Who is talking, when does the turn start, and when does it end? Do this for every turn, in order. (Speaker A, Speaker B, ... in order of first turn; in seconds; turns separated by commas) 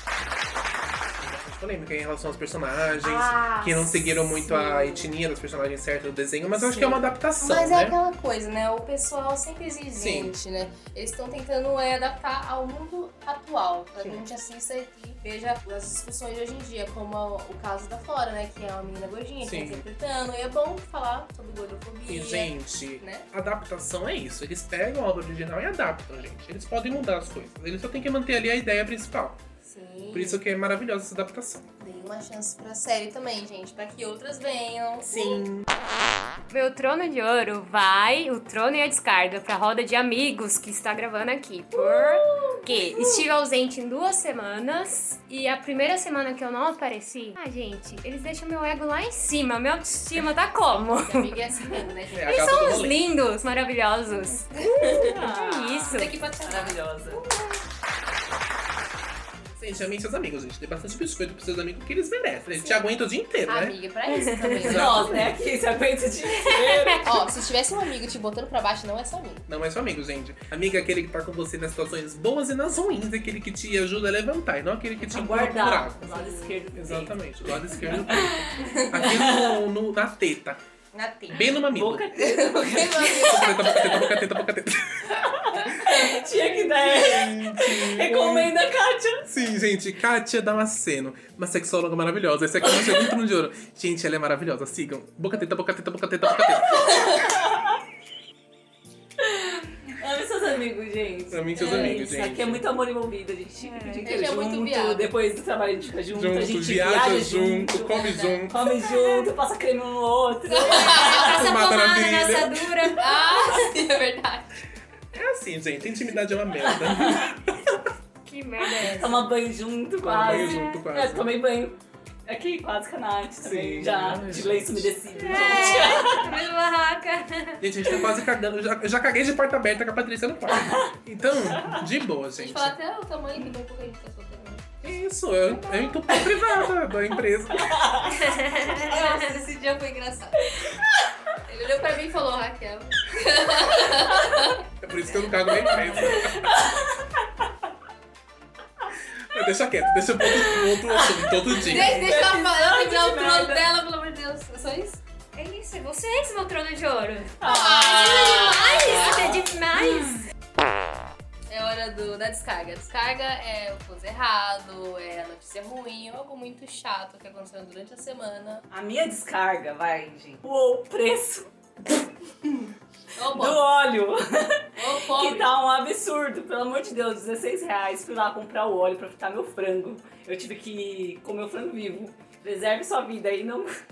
Speaker A: 1.2-8.0, Speaker B: 3.0-5.1, Speaker B: 6.5-23.3, Speaker A: 10.0-10.3, Speaker A: 19.4-19.9, Speaker A: 22.1-29.4, Speaker B: 29.6-30.4, Speaker A: 30.1-31.7, Speaker B: 31.8-35.5, Speaker A: 35.0-35.7, Speaker C: 36.5-56.1, Speaker B: 41.7-43.1, Speaker B: 51.0-52.8, Speaker A: 52.1-53.0, Speaker B: 54.5-55.1, Speaker A: 54.6-55.0, Speaker D: 54.8-57.2, Speaker B: 55.9-57.6, Speaker A: 59.6-63.8, Speaker B: 62.6-62.8, Speaker B: 63.5-65.4, Speaker C: 64.1-64.8, Speaker A: 64.6-65.3, Speaker D: 64.7-67.2, Speaker C: 66.3-67.3, Speaker B: 67.0-69.5, Speaker A: 69.5-80.6, Speaker D: 75.0-77.2, Speaker B: 76.1-76.6, Speaker D: 77.7-79.6, Speaker B: 78.6-79.1, Speaker B: 80.9-81.6, Speaker A: 81.3-82.1, Speaker D: 81.8-83.9, Speaker B: 82.2-84.2, Speaker A: 83.0-85.2, Speaker D: 85.2-89.3, Speaker B: 85.8-86.3, Speaker A: 85.9-88.5, Speaker A: 89.3-97.2, Speaker D: 92.7-93.2, Speaker D: 96.4-97.8, Speaker D: 99.2-111.4, Speaker A: 101.3-102.7, Speaker B: 101.6-102.0, Speaker C: 103.6-104.1, Speaker B: 104.0-105.1, Speaker A: 106.1-108.7, Speaker B: 107.9-108.4, Speaker C: 108.9-109.3, Speaker C: 110.6-113.2, Speaker B: 110.6-111.2, Speaker A: 111.0-113.0, Speaker B: 113.0-114.5, Speaker A: 115.1-117.9, Speaker D: 116.6-117.4, Speaker C: 118.2-119.3, Speaker D: 118.8-126.4, Speaker A: 120.0-121.3, Speaker C: 120.2-120.9, Speaker A: 123.4-125.4, Speaker C: 125.2-128.1, Speaker B: 125.2-126.2, Speaker A: 127.6-132.7, Speaker D: 130.5-130.9, Speaker D: 131.5-131.8, Speaker B: 132.4-134.7, Speaker A: 134.8-137.9, Speaker C: 135.7-136.0, Speaker D: 136.1-136.6, Speaker D: 137.5-138.2, Speaker C: 138.1-139.4, Speaker B: 138.4-140.6, Speaker B: 141.4-144.6, Speaker A: 144.8-146.5, Speaker D: 145.6-147.5, Speaker A: 149.1-152.1, Speaker D: 150.2-153.7, Speaker B: 151.5-155.0, Speaker C: 155.3-160.2, Speaker D: 157.4-160.1, Speaker B: 157.4-159.4, Speaker B: 161.5-168.6, Speaker D: 168.7-171.5, Speaker B: 172.4-173.6, Speaker D: 173.3-183.8, Speaker B: 174.8-175.5